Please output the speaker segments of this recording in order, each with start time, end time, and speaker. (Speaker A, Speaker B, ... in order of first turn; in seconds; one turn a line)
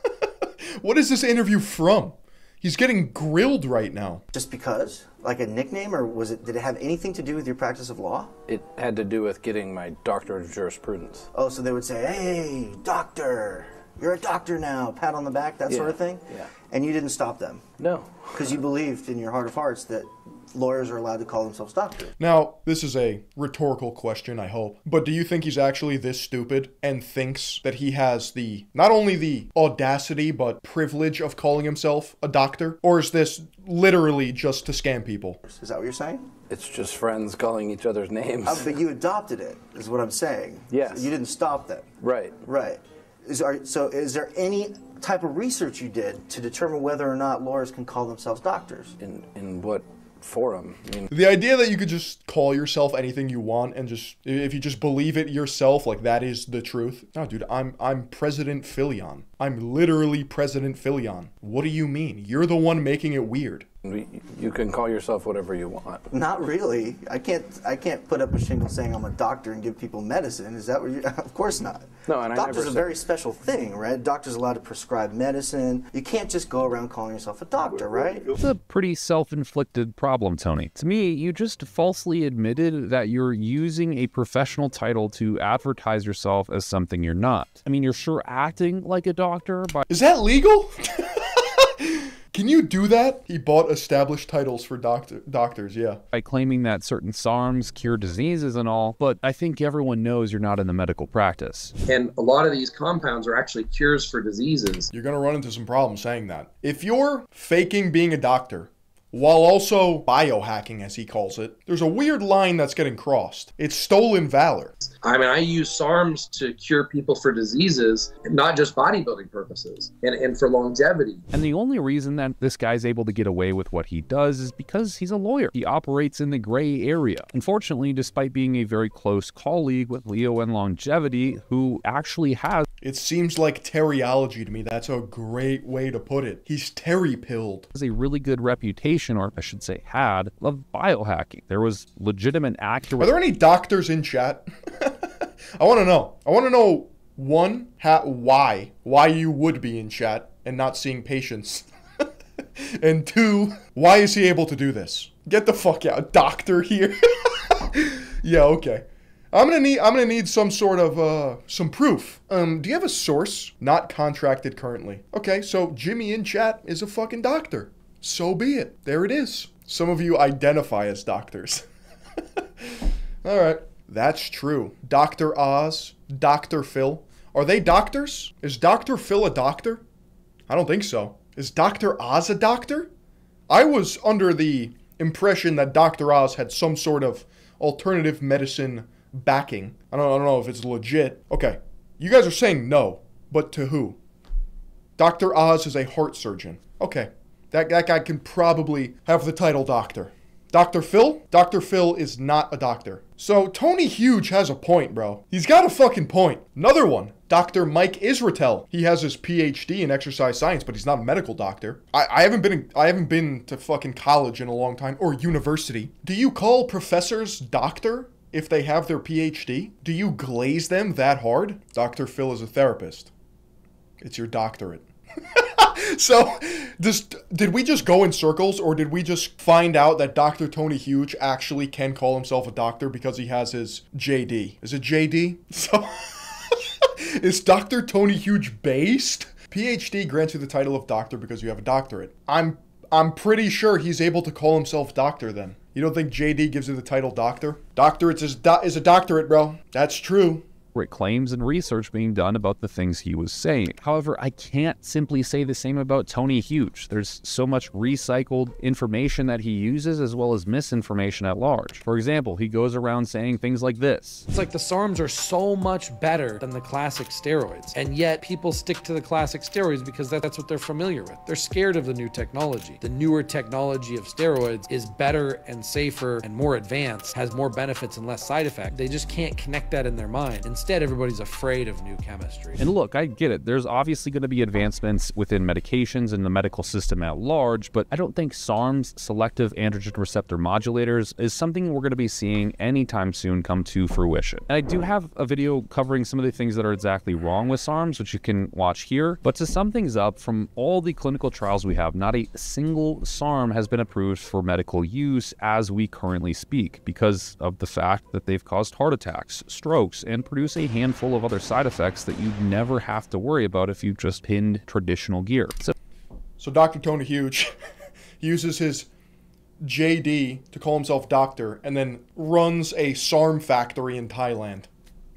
Speaker A: 0.2-4.2
Speaker B: 4.3-8.3
Speaker C: 8.5-11.3
Speaker B: 11.3-17.6
Speaker C: 15.7-16.5
Speaker C: 17.8-18.6
Speaker B: 18.3-22.1
Speaker A: 22.2-35.4
Speaker B: 35.4-36.3
Speaker C: 36.5-38.8
Speaker B: 38.4-49.0
Speaker C: 40.7-41.1
Speaker C: 42.0-42.3
Speaker C: 49.0-51.1
Speaker A: 51.1-63.7
Speaker C: 63.8-66.0
Speaker B: 66.1-78.3
Speaker C: 72.1-72.9
Speaker D: 78.4-89.8
Speaker A: 89.9-96.0
Speaker D: 96.1-101.7
Speaker E: 101.9-104.9
Speaker A: 104.9-114.7
Speaker E: 114.8-121.2
Speaker D: 121.3-132.6
Speaker A: 132.8-137.7
Speaker D: 137.7-143.1
Speaker A: 143.0-145.0
Speaker A: 145.6-151.7
Speaker A: 152.6-171.6
Speaker A: 173.2-179.8
Speaker A: 180.5-182.9
Speaker A: 183.5-194.0
Speaker A: 195.0-223.1
Speaker A: 224.0-250.4
Speaker D: 250.7-264.2
Speaker F: 264.3-282.6
Speaker D: 282.6-315.7
Speaker A: 316.4-317.5
Speaker A: 318.2-318.9
Speaker A: 319.6-324.7